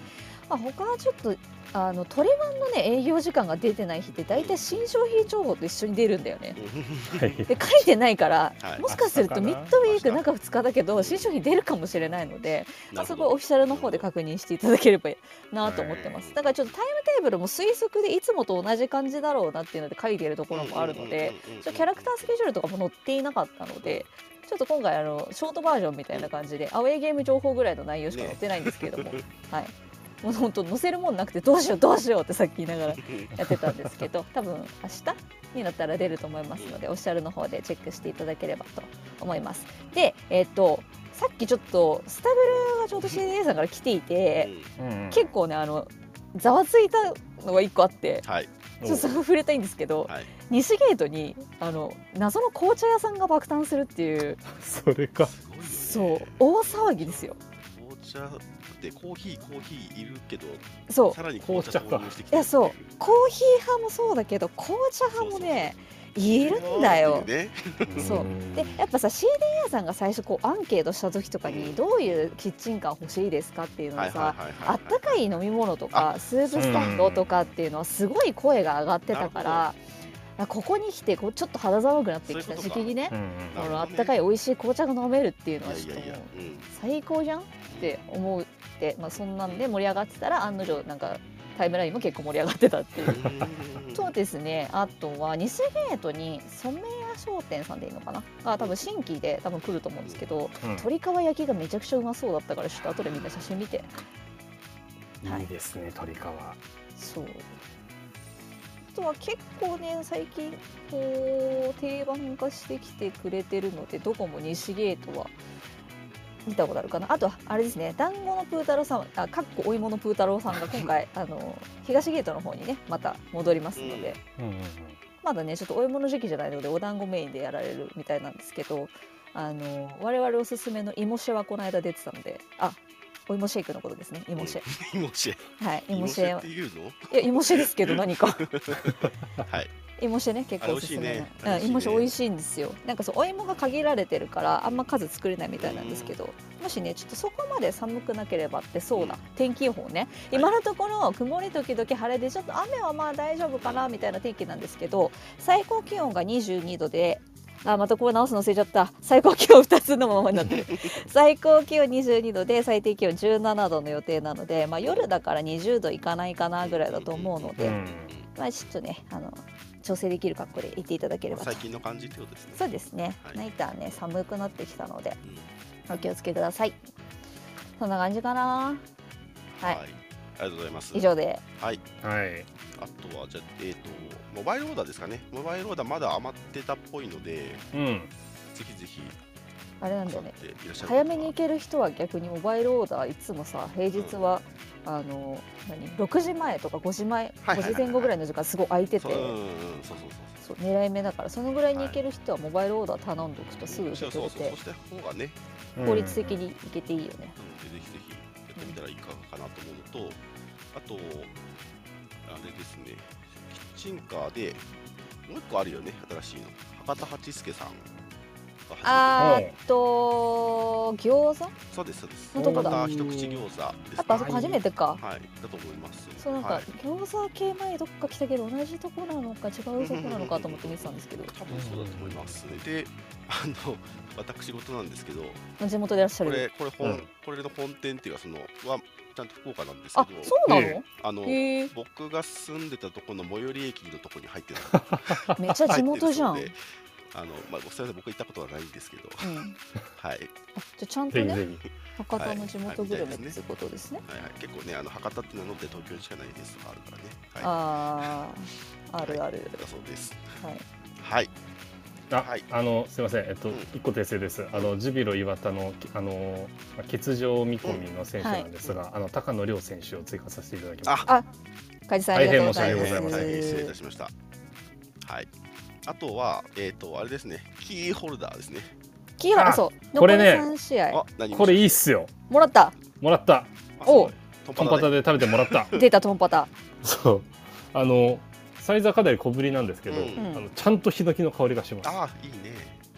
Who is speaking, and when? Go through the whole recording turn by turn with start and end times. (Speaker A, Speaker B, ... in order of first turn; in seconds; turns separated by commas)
Speaker A: 0.5-6.6, Speaker B: 4.3-4.8, Speaker B: 6.6-7.6, Speaker C: 7.1-7.6, Speaker A: 7.5-44.5, Speaker B: 8.6-8.8, Speaker C: 8.8-9.8, Speaker B: 9.8-10.2, Speaker B: 10.9-11.3, Speaker B: 12.9-14.1, Speaker C: 15.6-16.0, Speaker B: 15.9-16.6, Speaker B: 20.5-22.3, Speaker B: 28.1-29.3, Speaker B: 32.9-33.3, Speaker B: 44.4-44.7, Speaker C: 44.8-45.3, Speaker A: 45.1-48.2, Speaker B: 48.2-48.5, Speaker C: 48.8-49.1, Speaker A: 48.8-54.4, Speaker C: 54.5-55.3, Speaker B: 55.2-63.0, Speaker A: 55.6-57.4, Speaker A: 60.9-61.2, Speaker C: 61.4-62.1, Speaker A: 62.3-67.3, Speaker B: 65.1-68.3, Speaker C: 67.8-68.8, Speaker A: 68.0-79.8, Speaker B: 71.4-72.3, Speaker B: 74.0-75.3, Speaker B: 75.9-77.2, Speaker C: 76.5-77.3, Speaker B: 79.1-79.8, Speaker A: 80.4-93.3, Speaker B: 82.3-84.2, Speaker C: 83.1-83.6, Speaker B: 85.6-86.7, Speaker B: 87.7-88.0, Speaker B: 93.0-94.1, Speaker A: 93.9-103.9, Speaker B: 99.7-100.3, Speaker C: 100.6-100.9, Speaker C: 105.2-106.6, Speaker A: 107.0-107.5, Speaker A: 108.9-115.3, Speaker A: 116.5-124.2, Speaker B: 123.7-124.2, Speaker C: 124.4-125.0, Speaker A: 125.2-134.7, Speaker B: 134.3-139.7, Speaker A: 135.6-136.5, Speaker A: 137.1-138.5, Speaker A: 140.0-171.6, Speaker B: 140.6-142.1, Speaker B: 145.6-146.2, Speaker B: 148.9-149.2, Speaker B: 153.6-154.2, Speaker B: 166.6-168.3, Speaker C: 167.6-168.1, Speaker B: 171.3-172.6, Speaker A: 172.6-175.2, Speaker A: 175.9-176.8, Speaker A: 177.8-178.8, Speaker B: 179.5-181.8, Speaker A: 180.9-181.4, Speaker C: 182.0-182.5, Speaker B: 182.8-187.7, Speaker C: 187.7-188.1, Speaker B: 188.5-189.2, Speaker A: 189.8-199.4, Speaker B: 190.0-191.3, Speaker B: 193.9-194.2, Speaker B: 197.4-198.1, Speaker B: 199.0-200.4, Speaker A: 200.4-204.6, Speaker B: 201.7-202.0, Speaker B: 203.7-205.4, Speaker C: 205.8-206.4, Speaker A: 205.8-207.4, Speaker B: 207.4-210.2, Speaker B: 210.7-211.3, Speaker B: 212.2-214.6, Speaker B: 215.3-217.9, Speaker B: 218.7-219.4, Speaker A: 218.8-221.5, Speaker C: 219.2-219.5, Speaker B: 221.7-224.4, Speaker A: 222.3-222.8, Speaker C: 222.4-223.4, Speaker A: 224.0-225.0, Speaker C: 224.1-224.6, Speaker B: 225.0-226.7, Speaker A: 226.2-231.3, Speaker B: 229.8-235.4, Speaker C: 231.5-232.4, Speaker A: 235.6-236.5, Speaker B: 236.2-246.6, Speaker C: 236.8-237.1, Speaker A: 239.9-241.7, Speaker C: 240.4-240.8, Speaker C: 244.7-245.4, Speaker A: 245.4-246.5, Speaker B: 247.1-250.3, Speaker A: 249.2-249.6, Speaker A: 250.6-251.4, Speaker C: 251.1-251.6, Speaker A: 252.0-254.0, Speaker B: 252.1-253.4, Speaker B: 254.1-257.5, Speaker A: 257.4-259.6, Speaker B: 259.0-260.4, Speaker A: 260.4-260.6, Speaker B: 261.0-261.3, Speaker C: 262.1-271.1, Speaker B: 262.2-262.4, Speaker A: 268.2-268.5, Speaker B: 270.9-271.1, Speaker A: 271.9-273.8, Speaker C: 272.1-273.3, Speaker B: 272.2-274.1, Speaker B: 275.0-275.3, Speaker B: 275.8-278.7, Speaker A: 279.2-281.0, Speaker C: 279.3-280.5, Speaker B: 280.9-281.8, Speaker C: 281.3-282.1, Speaker A: 282.3-282.8, Speaker C: 283.0-283.5, Speaker B: 283.8-285.8, Speaker A: 283.8-284.1, Speaker C: 284.6-285.7, Speaker A: 285.7-286.5, Speaker C: 286.8-292.0, Speaker B: 289.9-290.2, Speaker A: 290.1-290.5, Speaker B: 291.8-292.8